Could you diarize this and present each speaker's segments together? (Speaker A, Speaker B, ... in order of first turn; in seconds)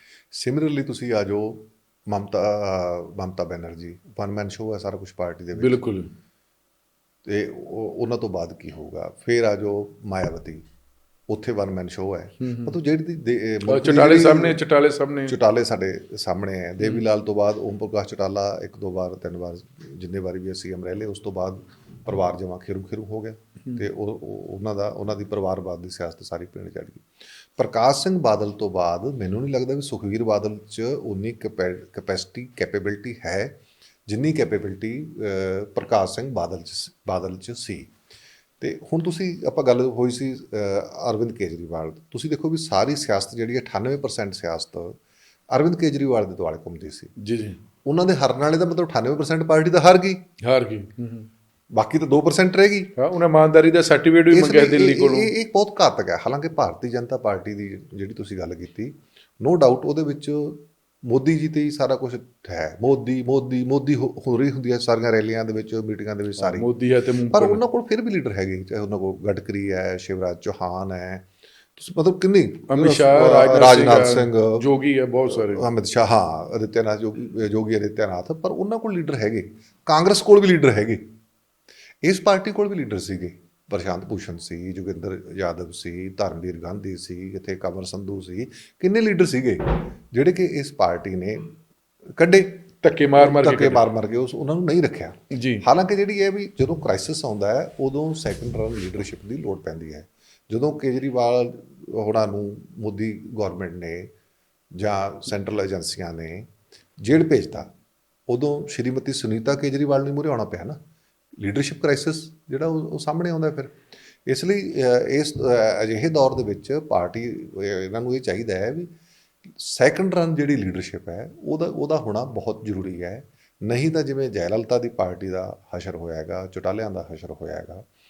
Speaker A: 0.3-5.8, 7.3-10.7, 11.3-14.6, 15.3-27.0, 27.6-37.9, 38.6-45.0, 45.5-47.1, 47.9-50.2, 51.7-52.9, 54.3-66.7, 67.3-74.6, 75.3-81.1, 82.0-91.5, 92.2-104.1, 104.8-107.7, 108.3-110.8, 111.4-113.8, 114.3-118.9, 119.5-127.9
Speaker B: 5.6-6.1, 12.4-12.8, 13.7-15.4, 47.2-47.6, 50.4-51.3, 53.0-55.3, 66.4-67.6, 72.7-75.7, 92.8-93.8, 95.3-95.6